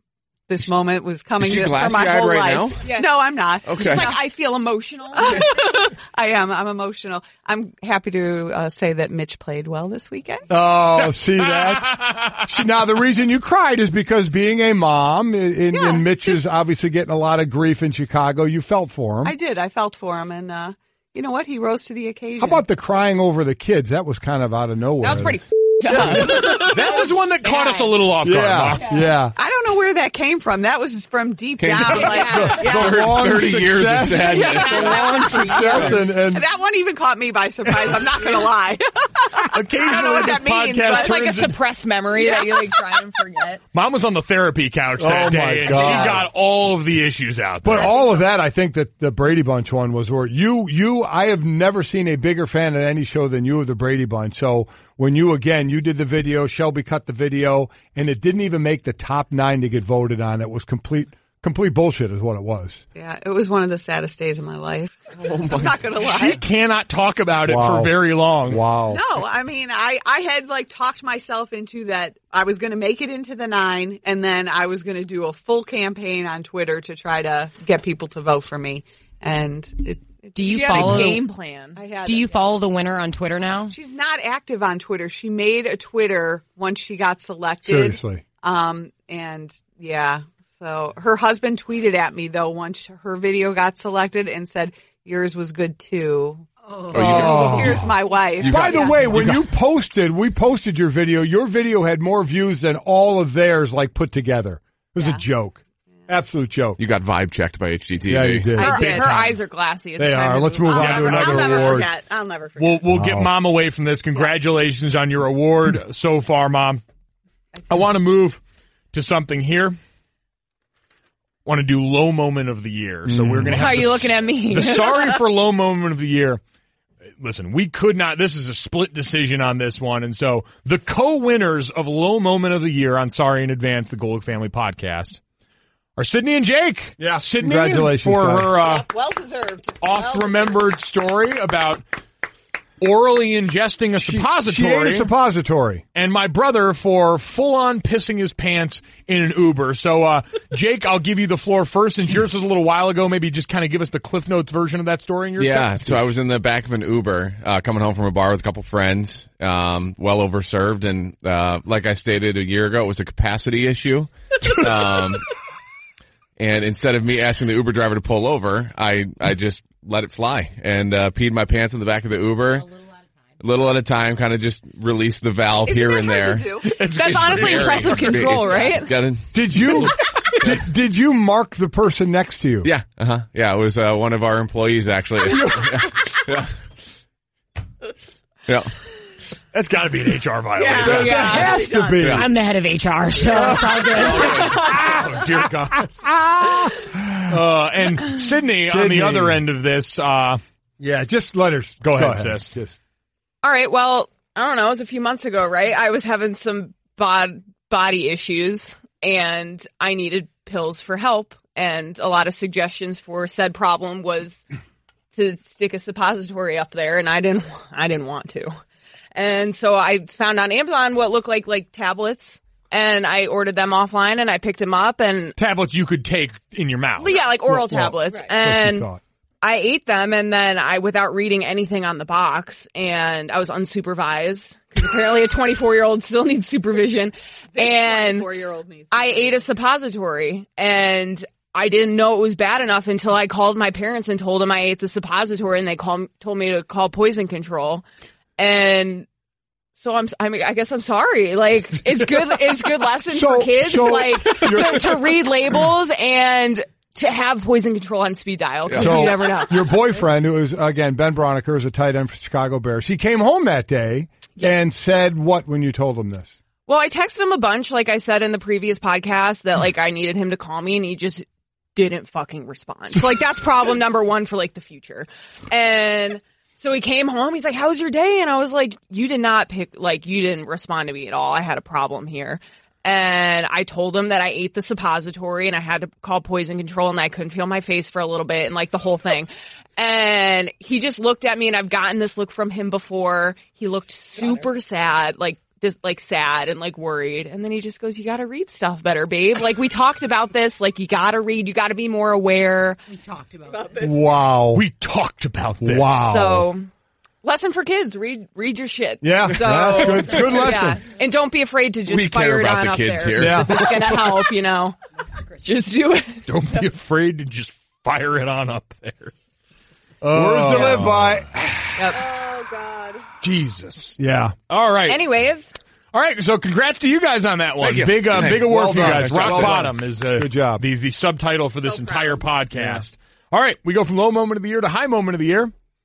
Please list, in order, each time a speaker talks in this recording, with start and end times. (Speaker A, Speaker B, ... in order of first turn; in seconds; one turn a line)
Speaker A: 0.5-4.2
Speaker B: 1.4-2.9
Speaker C: 2.8-5.6
Speaker B: 3.7-4.1
Speaker A: 5.2-10.5
Speaker D: 10.5-19.4
Speaker E: 11.0-12.4
Speaker A: 15.7-16.1
Speaker A: 19.2-22.6
Speaker D: 22.4-25.4
Speaker C: 25.0-26.9
Speaker D: 25.9-26.5
Speaker A: 25.9-26.8
Speaker E: 26.1-29.0
Speaker C: 27.5-27.9
Speaker D: 28.2-29.3
Speaker A: 29.4-33.1
Speaker B: 31.6-35.9
Speaker C: 31.9-32.7
Speaker D: 32.3-36.4
Speaker C: 34.2-36.0
Speaker A: 34.3-41.2
Speaker E: 39.4-41.6
Speaker C: 40.9-43.6
Speaker A: 42.1-43.0
Speaker E: 43.7-48.0
Speaker D: 45.0-46.3
Speaker D: 47.6-62.8
Speaker A: 63.0-66.4
Speaker B: 65.2-65.7
Speaker E: 66.0-68.7
Speaker D: 67.5-69.0
Speaker A: 68.9-81.2
Speaker F: 80.3-81.2
Speaker C: 80.5-81.8
Speaker A: 81.8-82.5
Speaker F: 82.0-83.8
Speaker A: 83.7-99.2
Speaker D: 87.7-88.2
Speaker B: 96.9-97.8
Speaker D: 96.9-97.9
Speaker B: 98.4-99.4
Speaker D: 98.4-106.8
Speaker A: 105.0-105.2
Speaker B: 106.8-108.6
Speaker D: 108.1-109.2
Speaker C: 108.5-111.7
Speaker A: 108.6-109.1
Speaker E: 108.9-109.3
Speaker D: 110.0-111.9
Speaker A: 110.7-112.8
Speaker E: 110.7-111.8
Speaker E: 112.6-116.8
Speaker D: 112.9-113.3
Speaker E: 117.7-118.4
Speaker E: 118.9-119.8
Speaker E: 121.5-126.4
Speaker D: 123.1-124.1
Speaker C: 123.5-125.2
Speaker E: 127.2-135.2
Speaker E: 136.0-138.9
Speaker D: 137.0-138.5
Speaker A: 138.6-140.6
Speaker E: 139.8-141.8
Speaker E: 142.8-145.1
Speaker D: 144.0-145.8
Speaker E: 145.9-156.1
Speaker B: 155.4-165.3
Speaker B: 166.4-172.7
Speaker B: 173.4-179.9
Speaker A: 175.7-176.8
Speaker E: 176.6-178.3
Speaker C: 176.8-178.9
Speaker D: 179.3-182.7
Speaker B: 182.6-186.5
Speaker B: 188.5-188.7
Speaker E: 189.5-191.4
Speaker A: 190.6-192.2
Speaker D: 190.8-192.3
Speaker C: 191.2-191.4
Speaker B: 192.0-192.3
Speaker F: 192.1-194.7
Speaker E: 194.0-195.9
Speaker D: 195.8-197.4
Speaker E: 197.3-200.4
Speaker D: 198.6-199.4
Speaker D: 200.8-202.8
Speaker E: 201.8-202.6
Speaker C: 203.4-214.4
Speaker C: 215.2-218.5
Speaker C: 219.2-225.4
Speaker E: 225.4-227.2
Speaker C: 227.0-228.9
Speaker D: 227.5-229.0
Speaker C: 229.4-238.3
Speaker A: 237.6-239.5
Speaker C: 238.9-247.8
Speaker C: 248.4-249.1
Speaker C: 249.8-259.7
Speaker D: 253.1-255.1
Speaker B: 258.7-259.0
Speaker D: 258.8-266.3
Speaker C: 266.7-302.8
Speaker A: 303.5-304.1
Speaker D: 303.8-304.6
Speaker E: 304.5-306.1
Speaker D: 305.6-306.5
Speaker C: 306.0-306.7
Speaker C: 307.2-314.8
Speaker D: 309.0-310.8
Speaker B: 311.9-313.7
Speaker D: 313.1-314.0
Speaker C: 315.4-316.2
Speaker E: 316.3-319.1
Speaker E: 320.0-321.2
Speaker D: 320.1-321.6
Speaker C: 321.8-322.0
Speaker A: 321.9-323.1
Speaker E: 323.2-325.1
Speaker D: 324.0-324.4
Speaker C: 324.9-325.5
Speaker E: 325.9-335.5
Speaker B: 327.6-329.7
Speaker D: 328.2-330.6
Speaker A: 331.7-332.2
Speaker D: 332.5-332.9